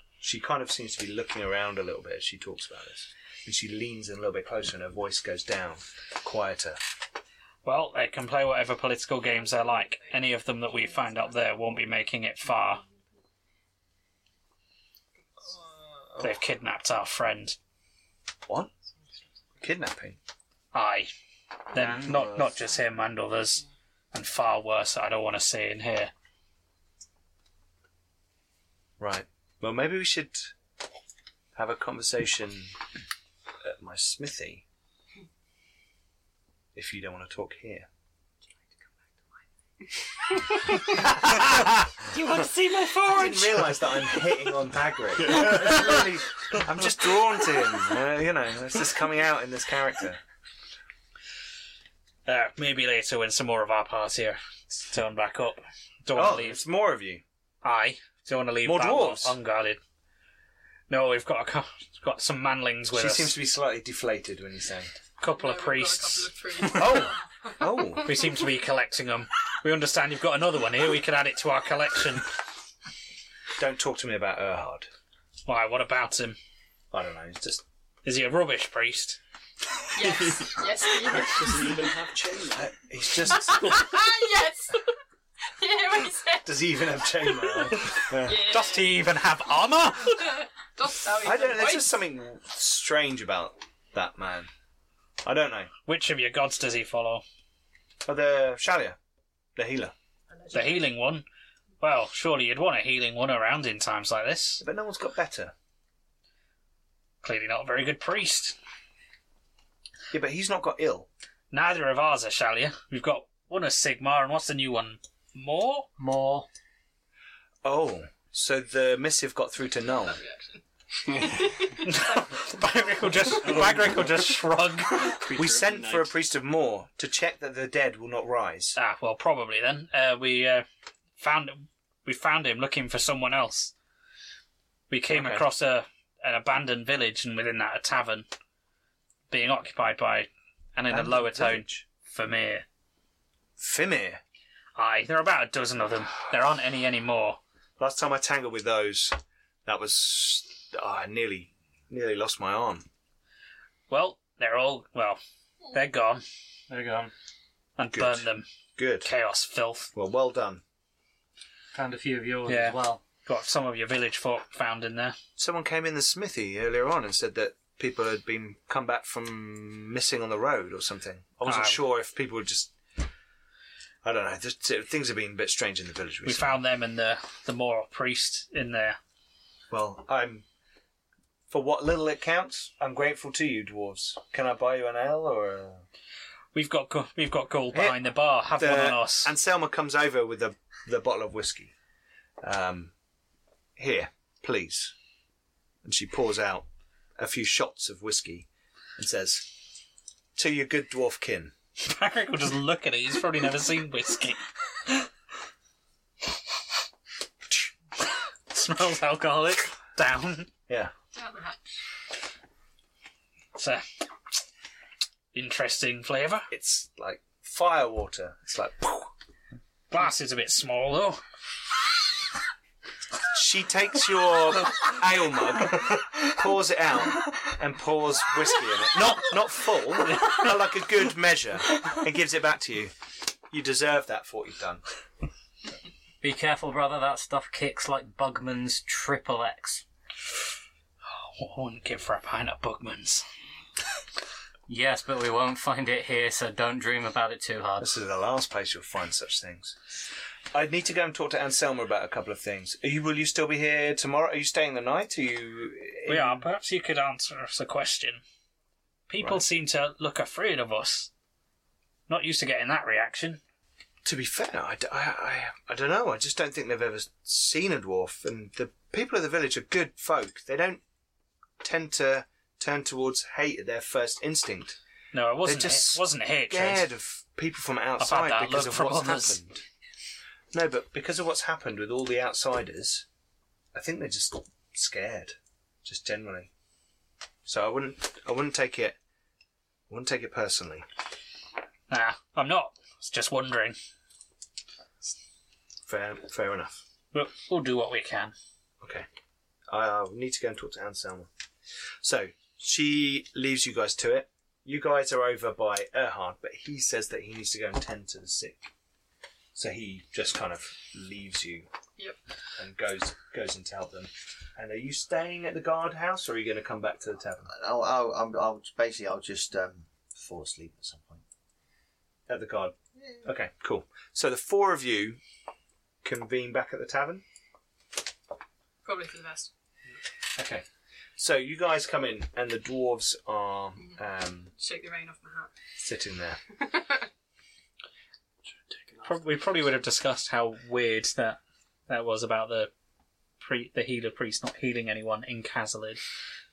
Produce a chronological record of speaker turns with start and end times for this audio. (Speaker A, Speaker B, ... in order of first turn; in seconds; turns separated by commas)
Speaker A: 0.2-6.8, Speaker B: 7.6-12.8, Speaker C: 9.4-10.1, Speaker C: 10.7-11.8, Speaker C: 12.5-12.9, Speaker A: 16.1-16.4, Speaker B: 16.2-17.6, Speaker A: 19.6-20.2, Speaker B: 20.7-21.1, Speaker B: 21.7-26.1, Speaker A: 29.0-30.5, Speaker A: 31.6-32.8, Speaker A: 33.6-34.6, Speaker A: 36.8-37.9, Speaker A: 40.9-41.9, Speaker B: 42.1-43.3, Speaker A: 43.1-50.2, Speaker D: 45.2-46.0, Speaker B: 52.3-56.6, Speaker A: 56.1-57.2, Speaker B: 57.6-59.8, Speaker A: 58.6-59.4, Speaker B: 60.9-63.3, Speaker A: 62.9-64.9, Speaker B: 65.2-67.1, Speaker C: 65.2-67.9, Speaker A: 66.7-68.2, Speaker B: 68.0-72.3, Speaker A: 73.6-74.9, Speaker B: 75.5-76.4, Speaker A: 76.9-77.6, Speaker B: 78.0-79.2, Speaker C: 80.0-81.8, Speaker D: 81.2-82.7, Speaker A: 82.5-83.9, Speaker C: 83.3-84.9, Speaker C: 85.6-89.0, Speaker A: 86.4-88.5, Speaker B: 88.3-90.3, Speaker C: 90.1-91.9, Speaker A: 91.2-94.5, Speaker A: 95.2-95.7, Speaker B: 95.9-97.2, Speaker A: 98.1-99.0, Speaker A: 99.6-99.9, Speaker C: 100.3-100.8, Speaker B: 100.5-101.2, Speaker B: 101.8-104.6, Speaker A: 104.6-105.5, Speaker B: 107.2-108.6, Speaker A: 110.1-111.1, Speaker B: 111.5-115.9, Speaker E: 116.0-116.5, Speaker A: 117.6-120.2, Speaker C: 120.0-122.4, Speaker B: 121.8-125.2, Speaker D: 123.4-124.3, Speaker D: 124.9-126.1, Speaker A: 125.3-128.8, Speaker B: 128.8-130.7, Speaker B: 131.2-133.7, Speaker B: 134.9-138.3, Speaker A: 135.1-135.5, Speaker B: 139.3-142.7, Speaker A: 140.9-141.9, Speaker A: 143.6-144.2, Speaker B: 144.8-147.4, Speaker A: 147.8-152.9, Speaker B: 153.9-155.2, Speaker B: 155.7-156.2, Speaker E: 156.7-157.1, Speaker B: 157.8-158.5, Speaker A: 157.9-159.1, Speaker B: 159.0-159.9, Speaker A: 159.9-160.6, Speaker E: 161.7-163.1, Speaker B: 162.5-165.2, Speaker A: 165.4-172.8, Speaker B: 171.4-171.8, Speaker A: 174.0-176.6, Speaker B: 176.2-179.0, Speaker A: 179.7-180.4, Speaker A: 181.5-185.8, Speaker B: 186.5-189.3, Speaker A: 187.7-188.0, Speaker A: 188.6-191.7, Speaker A: 192.4-192.9, Speaker A: 193.8-194.9, Speaker A: 195.8-199.5, Speaker A: 200.4-201.5, Speaker B: 201.8-205.1, Speaker B: 208.5-210.5, Speaker A: 210.7-210.9, Speaker C: 211.1-211.6, Speaker B: 213.6-213.8, Speaker B: 215.3-216.5, Speaker A: 216.5-219.1, Speaker B: 219.9-221.2, Speaker A: 223.3-232.9, Speaker A: 233.5-234.8, Speaker E: 236.2-239.8, Speaker B: 241.1-243.2, Speaker E: 244.7-248.0, Speaker A: 247.8-249.8, Speaker A: 250.5-256.5, Speaker B: 256.1-258.2, Speaker B: 259.1-261.1, Speaker B: 262.1-263.4, Speaker A: 264.1-270.8, Speaker A: 271.6-274.8, Speaker B: 275.1-276.9, Speaker A: 275.4-279.6, Speaker B: 278.0-279.4, Speaker A: 280.5-283.1, Speaker A: 283.7-286.5, Speaker A: 287.5-289.0, Speaker A: 289.9-290.9, Speaker B: 291.9-293.8, Speaker A: 295.9-296.8, Speaker B: 297.1-298.3, Speaker A: 298.8-299.1, Speaker A: 299.7-301.3, Speaker A: 302.0-308.7, Speaker A: 309.6-311.7, Speaker A: 312.6-317.5, Speaker F: 317.5-321.2, Speaker A: 322.3-325.2, Speaker A: 326.0-327.2, Speaker C: 328.9-329.5, Speaker A: 330.4-330.6, Speaker A: 331.2-334.5, Speaker C: 334.6-335.5, Speaker A: 335.8-336.4, Speaker C: 336.6-337.1, Speaker D: 338.4-339.3, Speaker B: 339.1-342.7, Speaker B: 343.4-346.0